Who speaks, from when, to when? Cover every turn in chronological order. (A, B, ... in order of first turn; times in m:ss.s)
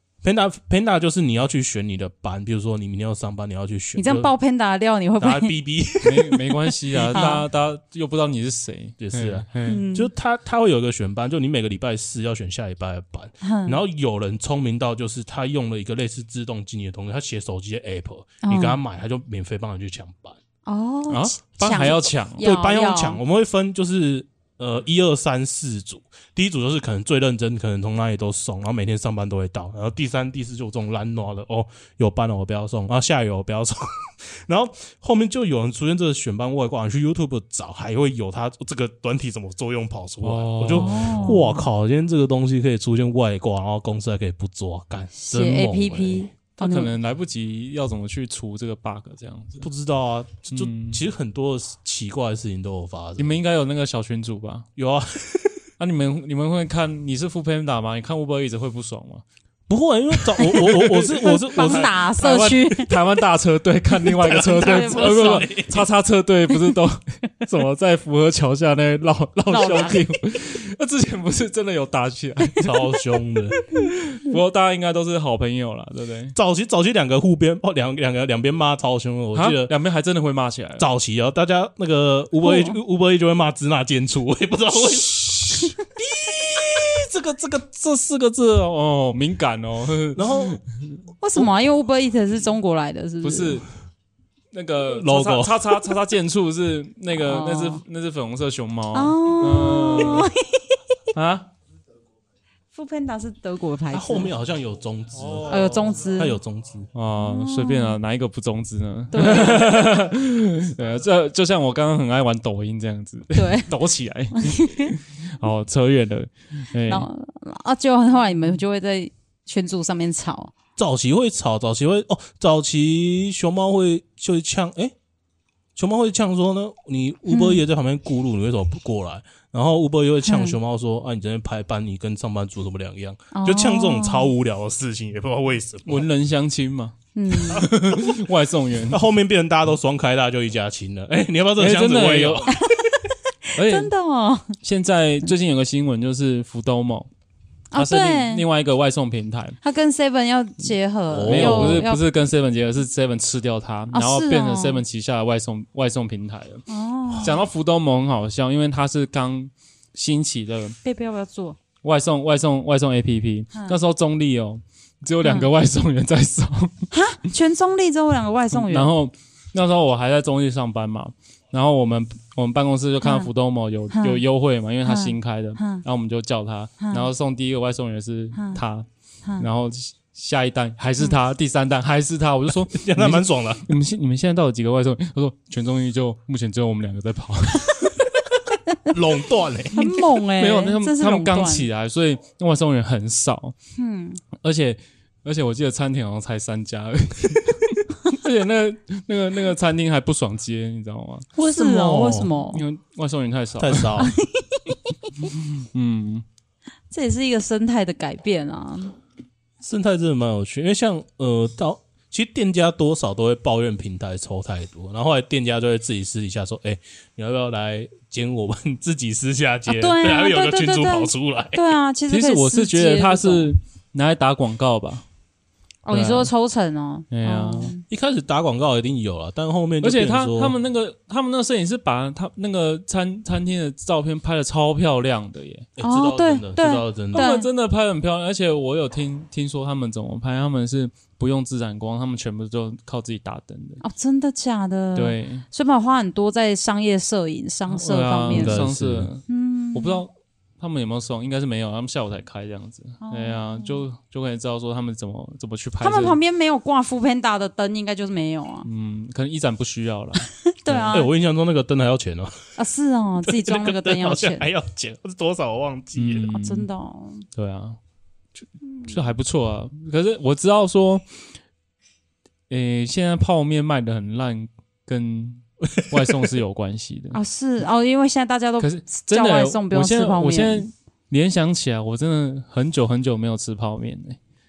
0:00.2-0:04.3 A
0:04.0-0:05.5 B
0:05.2-0:06.3 A
0:06.0-0:09.8 C
0:07.1-0:07.4 B
0:09.0-0:20.4 A
0:09.6-0:10.1 B
0:13.4-0:13.8 B
0:18.4-0:18.8 B
0:20.6-0:23.2 B
0:21.1-0:22.4 C
0:22.4-0:46.3 A
0:40.2-0:41.5 C
0:40.7-0:41.6 B
0:45.1-0:46.9 B
0:46.6-0:49.7 C
0:49.6-0:53.4 A
0:50.5-0:51.0 C
0:53.2-0:54.6 C
0:54.8-0:55.6 A
0:55.8-0:59.2 C
0:59.7-1:02.0 A
1:00.4-1:02.9 B
1:01.6-1:12.7 C
1:04.0-1:05.9 A
1:04.5-1:05.4 B
1:09.5-1:10.1 B
1:12.6-1:13.6 A
1:13.6-1:13.9 B
1:13.8-1:16.4 C
1:16.3-1:19.7 A
1:19.3-1:20.9 C
1:20.8-1:27.5 A
1:22.4-1:22.8 B
1:27.4-1:30.6 C
1:30.2-1:30.6 A
1:31.2-1:33.6 B
1:33.2-1:33.7 C
1:34.5-1:40.3 C
1:34.8-1:35.7 A
1:37.1-1:37.8 B
1:38.9-1:40.6 B
1:41.1-1:41.5 C
1:42.7-1:44.3 B
1:43.9-1:46.9 A
1:45.2-1:45.7 C
1:45.5-1:46.4 B
1:46.9-1:57.1 C
1:47.2-1:48.0 B
1:49.1-1:50.0 B
1:53.3-1:53.7 B
1:54.3-1:54.9 B
1:56.9-2:00.5 B
2:00.8-2:04.9 A
2:05.8-2:16.0 A
2:07.3-2:07.6 B
2:10.2-2:10.6 B
2:13.3-2:14.3 B
2:15.8-2:17.0 C
2:17.1-2:17.6 B
2:17.5-2:19.0 C
2:17.6-2:18.2 A
2:18.9-2:22.5 A
2:21.6-2:22.5 C
2:22.6-2:24.6 B
2:23.6-2:23.9 C
2:24.6-2:27.1 C
2:27.7-2:28.4 B
2:27.7-2:29.6 C
2:29.6-2:32.0 B
2:31.1-2:31.9 A
2:31.3-2:36.6 C
2:33.9-2:34.8 B
2:36.7-2:37.4 B
2:37.2-2:40.8 C
2:40.8-2:41.6 B
2:41.8-2:46.9 C
2:45.2-2:45.5 B
2:46.9-2:48.9 B
2:48.5-2:58.8 C
2:53.0-2:53.3 B
2:53.9-2:54.2 B
2:54.8-2:55.8 B
2:56.8-2:57.1 B
2:58.4-2:58.6 B
2:59.4-3:07.8 C
3:02.7-3:03.6 A
3:08.9-3:09.8 A
3:09.7-3:11.7 B
3:10.2-3:13.5 C
3:13.8-3:14.2 B
3:14.4-3:21.3 C
3:21.4-3:22.6 B
3:21.4-3:22.3 A
3:22.5-3:24.1 C
3:23.6-3:24.1 A
3:24.0-3:24.8 B
3:25.3-3:26.2 C
3:26.9-3:28.9 B
3:29.6-3:41.6 A
3:39.7-3:43.5 B
3:42.1-3:45.0 C
3:45.8-3:47.8 B
3:45.9-3:46.3 C
3:47.1-3:47.7 C
3:47.9-3:50.5 A
3:49.8-3:55.7 C
3:55.8-3:57.2 A
3:55.8-3:57.5 B
3:57.1-4:03.8 C
4:03.8-4:08.6 B
4:04.9-4:05.4 C
4:07.7-4:16.2 C
4:08.3-4:09.1 A
4:09.3-4:10.0 B
4:13.0-4:13.8 B
4:15.8-4:18.7 B
4:18.6-4:20.9 C
4:20.4-4:21.1 B
4:20.9-4:22.6 A
4:22.6-4:24.5 B
4:23.2-4:26.3 A
4:25.9-4:26.7 C
4:26.3-4:27.2 B
4:27.3-4:27.8 C
4:28.4-4:31.0 C
4:32.5-4:37.2 C
4:37.1-4:40.6 B
4:38.6-4:44.2 C